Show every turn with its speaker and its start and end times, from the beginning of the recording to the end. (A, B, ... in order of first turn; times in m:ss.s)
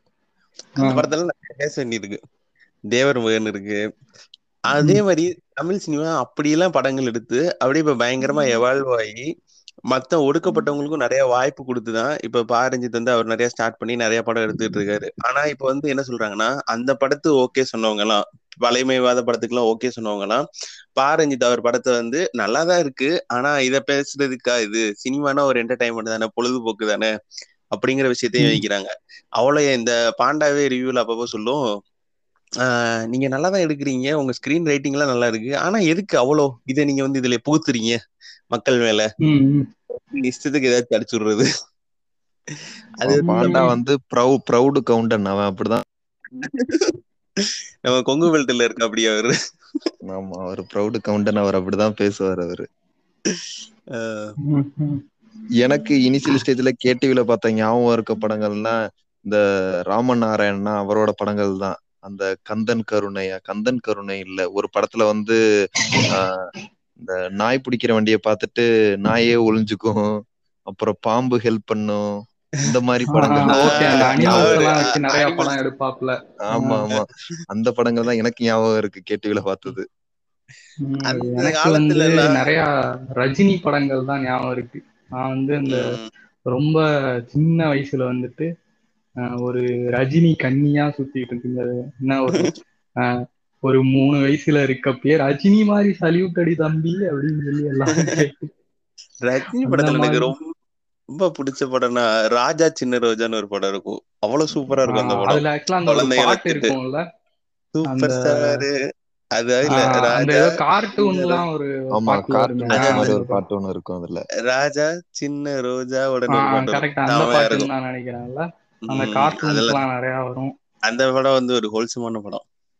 0:00.8-0:01.0 A
0:00.8-0:02.2 B
0:02.9-0:03.8 B
0:04.7-0:09.2 B
0:09.9-0:20.4 B
0:21.0-0:27.1 B
0:27.7-0:31.6 B
0:32.6-0:38.0 B
0:38.5-0:39.1 B
0:39.2-0:39.7 A
0:40.1-0:41.5 B
0:43.0-0:43.3 B
0:43.0-0:45.8 C
0:43.2-0:43.8 A
0:46.4-0:49.3 B
0:50.1-0:52.6 C
0:54.0-0:54.3 B
0:54.4-0:55.0 A
0:55.6-0:58.8 C
0:59.3-1:05.4 C
1:06.1-1:06.4 C
1:07.0-1:10.0 C
1:10.7-1:12.0 C
1:12.6-1:14.6 C
1:13.1-1:16.8 A
1:13.5-1:15.6 B
1:16.4-1:19.8 C
1:20.8-1:22.6 A
1:21.0-1:22.4 B
1:23.2-1:25.9 A
1:25.7-1:26.1 B
1:26.5-1:28.5 A
1:29.2-1:32.5 A
1:33.6-1:38.5 A
1:39.2-1:40.5 B
1:39.6-1:40.3 A
1:41.1-1:46.7 B
1:44.8-1:47.0 A
1:47.7-1:48.7 B
1:47.9-1:48.6 A
1:49.4-1:50.4 B
1:49.7-1:53.4 A
1:51.0-1:51.3 B
1:51.9-1:54.2 C
1:52.7-1:53.0 B
1:54.4-1:57.7 B
1:56.3-2:00.5 A
1:58.8-1:59.8 B
2:00.9-2:02.4 B